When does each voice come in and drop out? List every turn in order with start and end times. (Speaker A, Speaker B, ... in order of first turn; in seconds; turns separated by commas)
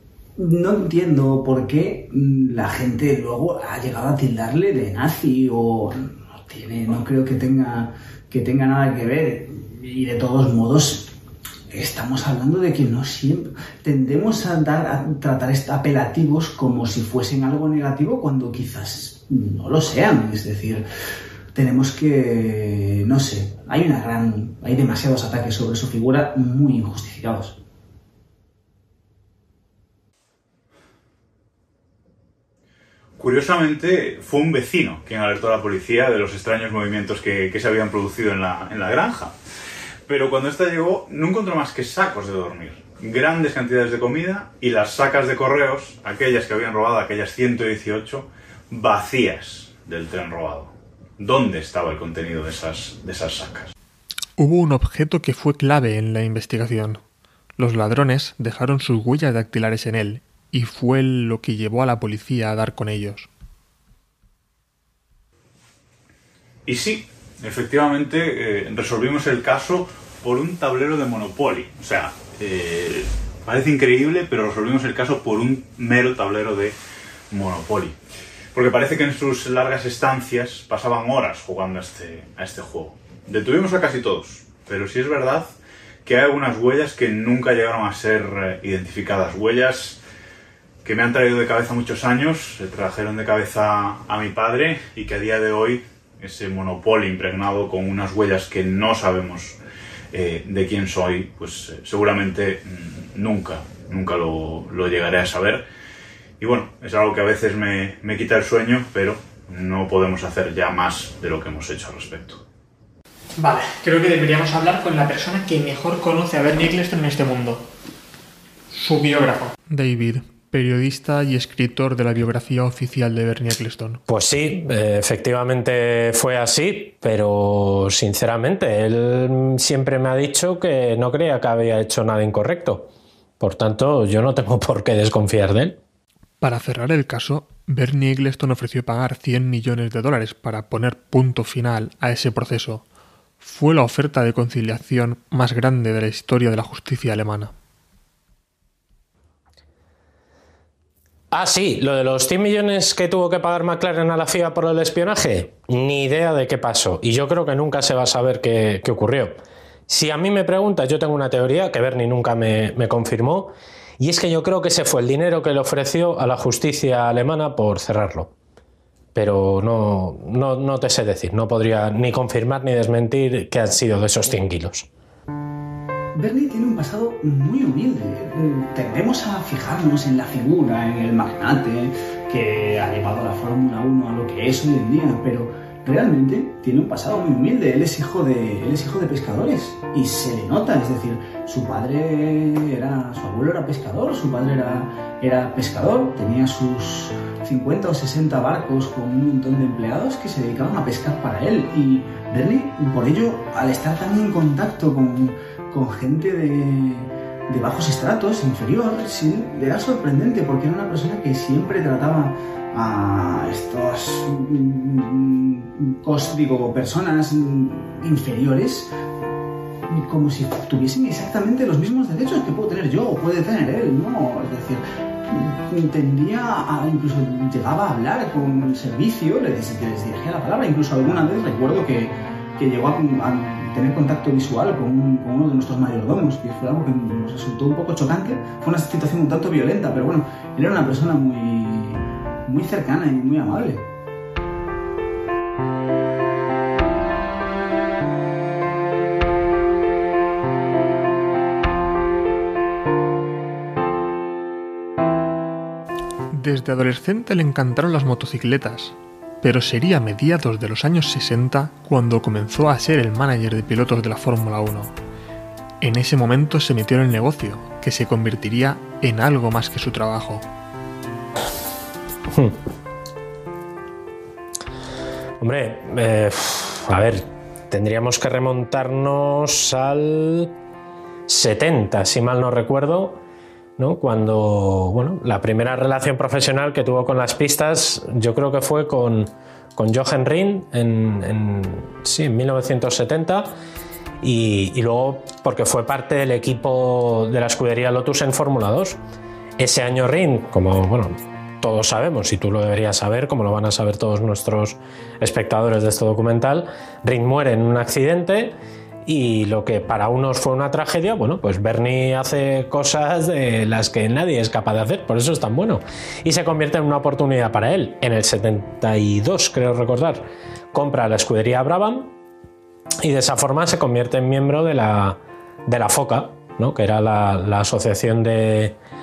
Speaker A: 0.4-11.1, Speaker A: 11.7-20.9, Speaker A: 21.5-27.6, Speaker B: 33.2-39.3, Speaker B: 40.1-53.7, Speaker C: 54.4-57.0, Speaker C: 57.6-63.3, Speaker B: 66.7-76.7, Speaker B: 77.3-78.0, Speaker B: 78.5-85.5, Speaker B: 86.0-90.0, Speaker B: 90.8-99.6, Speaker B: 100.1-105.6, Speaker B: 106.4-112.4, Speaker D: 113.4-117.6, Speaker D: 118.7-119.5, Speaker C: 119.7-124.0, Speaker E: 124.1-135.8, Speaker C: 136.4-142.8, Speaker C: 143.4-147.5, Speaker E: 151.3-168.3, Speaker E: 169.1-174.9, Speaker A: 176.2-218.9, Speaker A: 219.9-243.9, Speaker C: 256.3-264.9, Speaker C: 265.8-270.4, Speaker E: 272.3-272.6, Speaker E: 275.4-280.5, Speaker E: 281.3-283.2, Speaker E: 283.8-293.5, Speaker E: 294.2-299.0, Speaker E: 299.6-322.1, Speaker E: 323.0-328.8